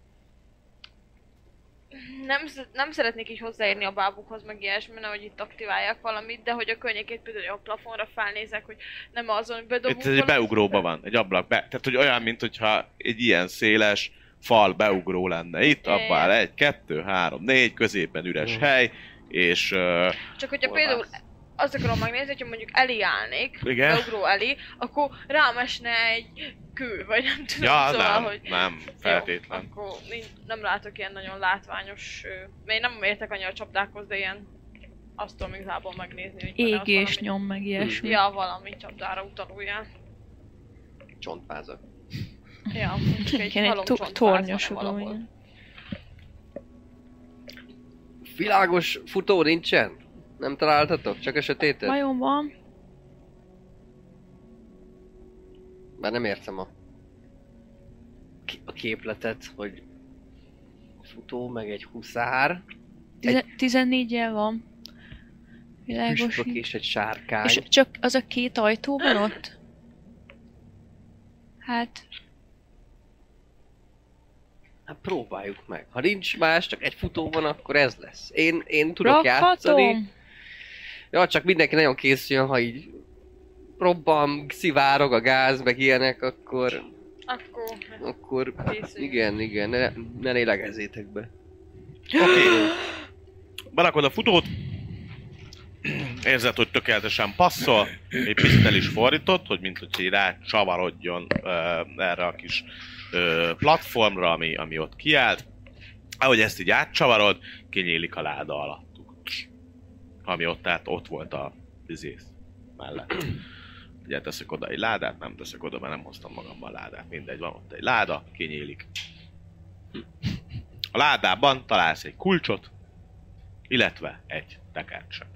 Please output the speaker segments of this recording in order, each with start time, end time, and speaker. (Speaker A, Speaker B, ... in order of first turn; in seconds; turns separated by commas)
Speaker A: 1.9-10.8, Speaker B: 9.9-20.2, Speaker A: 15.7-16.4, Speaker C: 18.4-18.7, Speaker A: 20.4-34.5, Speaker C: 20.6-21.1, Speaker B: 23.6-24.1, Speaker B: 27.6-29.7, Speaker A: 35.2-37.3, Speaker D: 36.6-38.2, Speaker C: 37.8-38.1, Speaker A: 38.0-39.9, Speaker C: 41.2-41.8, Speaker A: 42.7-45.2, Speaker D: 43.2-45.3, Speaker C: 48.3-52.0, Speaker D: 51.9-52.5, Speaker C: 56.0-56.7, Speaker C: 58.5-59.8, Speaker C: 61.0-62.6, Speaker D: 63.2-64.6, Speaker D: 65.9-66.7, Speaker C: 66.0-67.7, Speaker D: 67.4-69.5, Speaker D: 71.6-72.0, Speaker C: 74.9-80.0, Speaker D: 79.0-80.1, Speaker C: 81.1-83.0, Speaker C: 83.8-86.9, Speaker A: 87.3-88.0, Speaker C: 88.0-91.3, Speaker A: 88.6-89.3, Speaker B: 92.1-92.7, Speaker C: 92.2-92.7, Speaker B: 93.7-94.6, Speaker B: 95.8-105.5, Speaker B: 106.2-109.5, Speaker B: 110.2-113.3, Speaker B: 114.0-118.9, Speaker B: 120.9-122.7, Speaker B: 123.7-125.3